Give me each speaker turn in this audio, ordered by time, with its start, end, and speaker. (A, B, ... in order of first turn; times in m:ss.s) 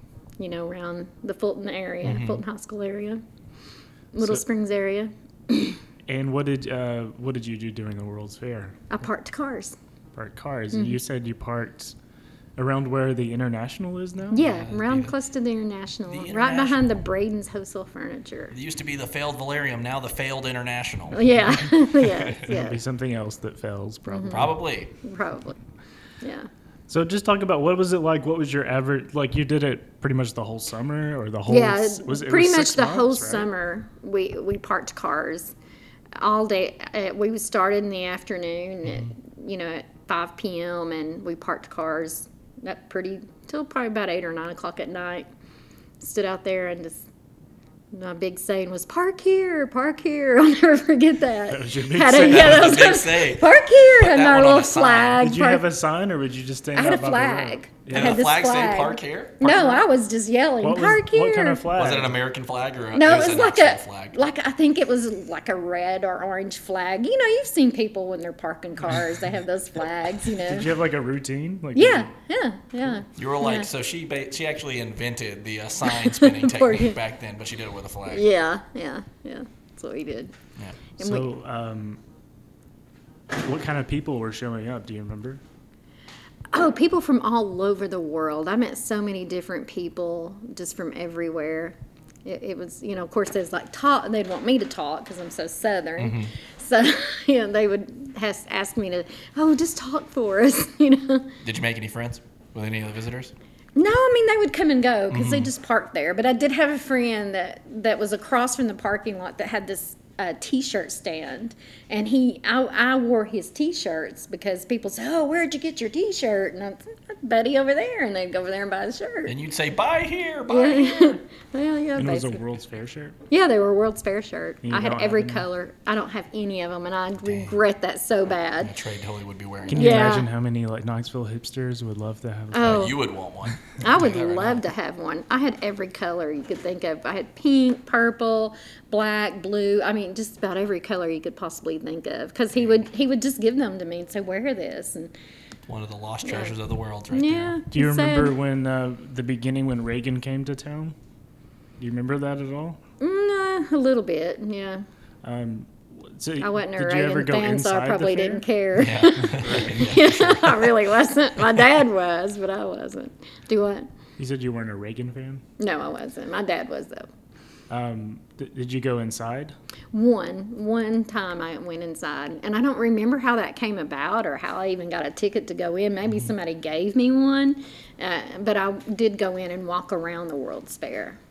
0:00.4-0:03.2 A
0:02.0-0:02.4 B
0:04.1-0:05.8 A
0:06.1-0:08.8 C
0:08.9-0:09.8 A
0:10.1-0:11.9 C
0:10.7-0:11.0 A
0:12.6-0:14.4 C
0:14.3-0:18.5 A
0:14.3-0:15.1 B
0:16.1-0:17.0 B
0:18.5-0:21.2 B
0:21.1-0:22.8 A
0:21.2-0:21.8 C
0:22.3-0:24.5 C
0:24.1-0:25.6 A
0:24.3-0:24.9 B
0:26.2-0:26.5 A
0:26.9-0:33.5 C
0:31.5-0:35.5 A
0:36.2-0:45.3 A
0:46.0-0:47.0 A
0:47.9-0:55.6 A
0:51.5-0:52.9 C
0:52.2-0:55.2 B
0:55.2-0:58.2 C
0:56.7-1:01.7 A
0:57.9-0:59.5 B
0:59.4-0:59.8 C
1:00.6-1:02.2 C
1:01.7-1:04.2 B
1:02.9-1:10.7 A
1:10.4-1:12.1 C
1:11.7-1:13.7 A
1:13.1-1:18.2 B
1:15.9-1:17.0 A
1:18.1-1:20.3 A
1:21.0-1:21.3 A
1:21.0-1:22.0 C
1:23.3-1:25.4 C
1:26.5-1:41.3 A
1:36.0-1:36.3 B
1:41.4-1:43.3 B
1:43.8-1:59.4 A
1:45.1-1:45.5 B
1:59.2-2:01.2 B
2:00.5-2:02.4 A
2:02.0-2:03.2 C
2:03.3-2:08.8 A
2:04.6-2:05.5 C
2:07.2-2:07.6 B
2:08.6-2:10.1 B
2:09.7-2:12.9 C
2:09.7-2:10.3 A
2:12.5-2:13.0 A
2:12.6-2:14.7 B
2:13.8-2:25.1 A
2:25.7-2:27.6 B
2:26.2-2:26.5 A
2:27.1-2:28.3 A
2:27.7-2:31.0 C
2:31.8-2:32.8 C
2:33.0-2:34.8 A
2:35.2-2:38.4 C
2:36.4-2:43.9 A
2:38.8-2:40.7 B
2:44.2-2:45.4 C
2:45.6-2:47.1 A
2:47.7-2:49.5 C
2:49.9-3:01.2 A